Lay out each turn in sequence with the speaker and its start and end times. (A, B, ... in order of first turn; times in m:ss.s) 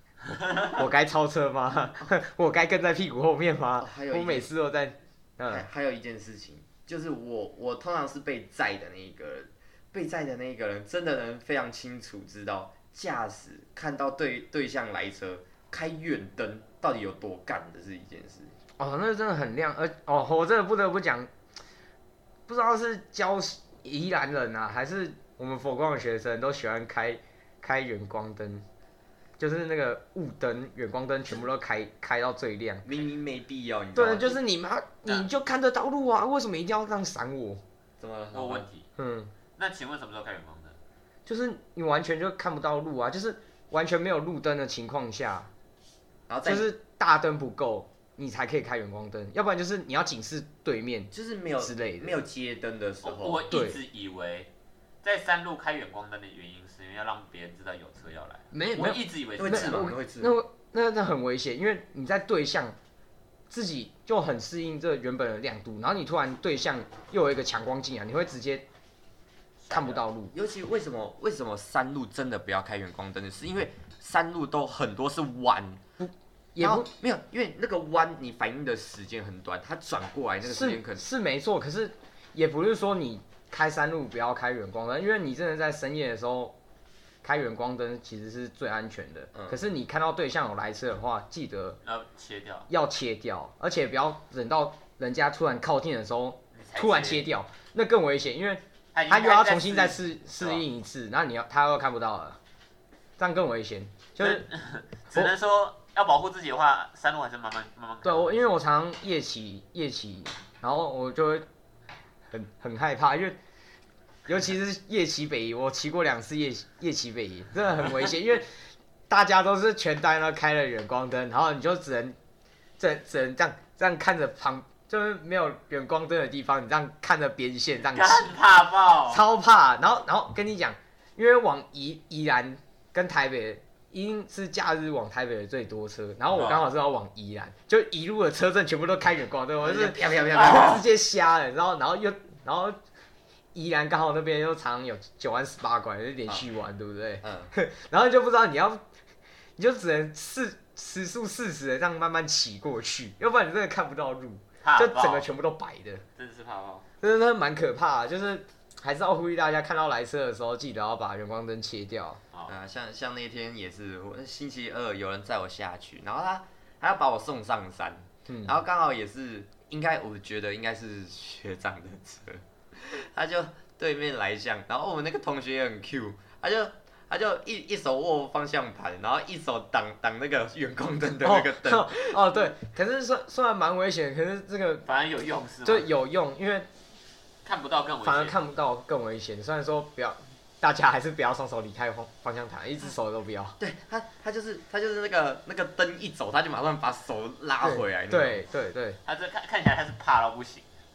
0:00.7-0:05.7 A
0:03.8-0:04.5 B
0:05.5-0:18.6 B
0:18.8-0:21.3 A
0:22.5-0:28.6 A
0:29.4-0:32.9 A
0:32.8-0:34.4 B
0:33.9-0:37.6 A
0:38.0-0:38.7 B
0:38.3-0:38.9 C
0:39.0-0:39.3 A
0:39.6-0:40.8 C
0:41.2-0:45.5 A
0:46.3-0:46.7 B
0:46.4-0:52.2 A
0:51.1-0:53.5 B
0:53.0-0:54.5 C
0:53.5-0:53.8 A
0:55.0-0:59.9 C
0:58.5-1:02.8 A
0:59.4-1:00.3 B
1:03.5-1:08.6 A
1:09.6-1:10.0 C
1:09.7-1:10.3 A
1:10.3-1:15.8 B
1:16.0-1:16.9 A
1:16.6-1:21.0 B
1:20.4-1:26.6 A
1:27.2-1:31.8 A
1:29.3-1:29.6 B
1:31.8-1:32.7 C
1:32.7-1:42.4 A
1:36.5-1:37.2 C
1:38.9-1:40.6 C
1:43.2-1:44.5 A
1:44.2-1:48.4 C
1:48.0-1:51.4 A
1:52.3-1:53.4 A
1:54.3-1:58.5 A
1:59.1-2:02.2 A
2:02.8-2:08.3 A
2:07.9-2:09.2 C
2:09.1-2:22.8 A
2:16.3-2:16.6 C
2:19.6-2:20.8 B
2:23.5-2:28.8 A
2:27.2-2:27.5 B
2:29.6-2:36.0 A
2:34.6-2:35.3 C
2:36.2-2:36.9 C
2:37.0-2:42.2 A
2:42.5-3:02.4 B
2:48.3-2:48.6 A
3:01.2-3:04.9 A
3:04.9-3:05.9 C
3:05.6-3:06.7 A
3:07.4-3:08.4 C
3:08.0-3:13.6 A
3:13.6-3:18.4 B
3:17.6-3:19.0 A
3:19.0-3:20.7 C